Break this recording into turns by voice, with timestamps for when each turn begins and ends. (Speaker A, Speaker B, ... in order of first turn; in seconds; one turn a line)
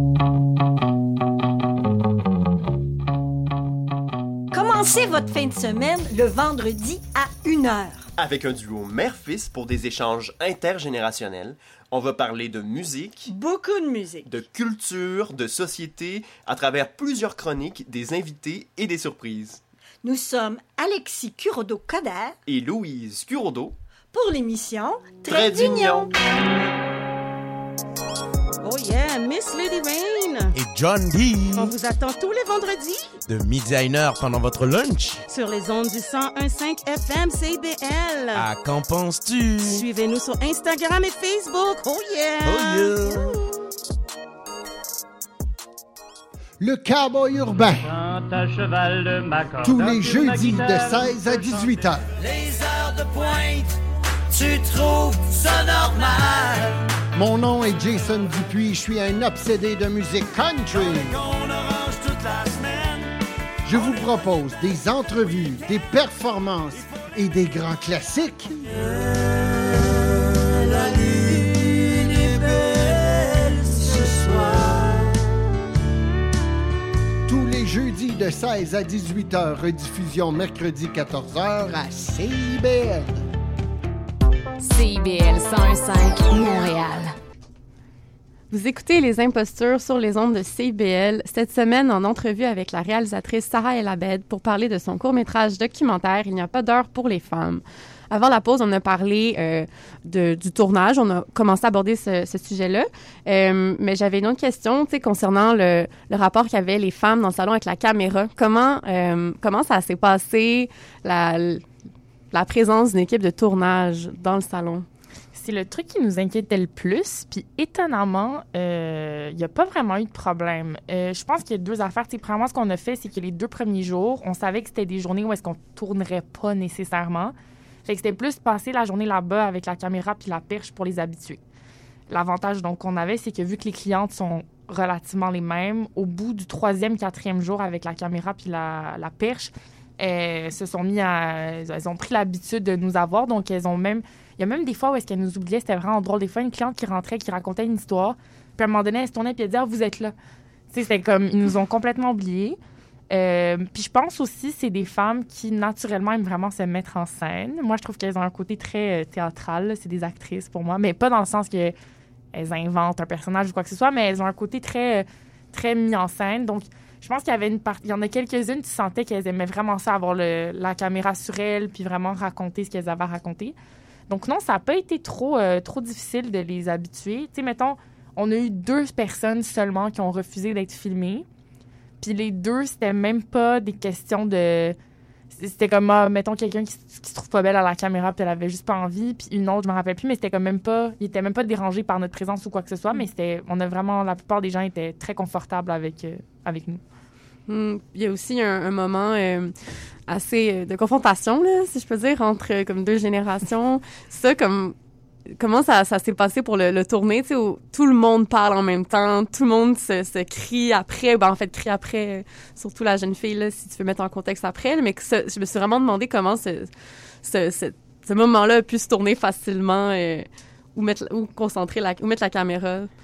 Speaker A: 4.5-8.1
Speaker B: 8.2-13.3
Speaker A: 13.3-14.3
Speaker B: 14.2-19.6
Speaker A: 20.0-22.4
Speaker B: 22.5-23.8
Speaker A: 24.1-26.1
Speaker B: 25.2-26.1
Speaker C: 28.6-30.6
Speaker D: 30.5-31.7
Speaker C: 31.5-33.2
Speaker D: 33.3-35.2
Speaker C: 35.3-38.5
Speaker D: 38.3-39.8
Speaker C: 39.6-43.4
Speaker D: 42.5-43.1
Speaker E: 46.6-47.9
Speaker F: 47.9-51.9
Speaker E: 49.6-52.0
Speaker E: 57.1-61.2
Speaker E: 63.6-68.6
Speaker E: 77.3-83.2
Speaker C: 84.6-87.1
Speaker G: 88.5-111.6
Speaker G: 112.3-114.9
Speaker H: 115.3-127.3
Speaker H: 127.9-131.4
Speaker H: 132.1-150.1
Speaker H: 150.7-152.6
Speaker H: 153.1-161.8
Speaker H: 162.3-173.6
Speaker H: 174.1-181.3
Speaker H: 182.0-184.8
Speaker H: 185.3-196.8
Speaker G: 197.5-199.5
Speaker G: 200.1-204.8
Speaker G: 205.3-216.7
Speaker G: 217.2-222.9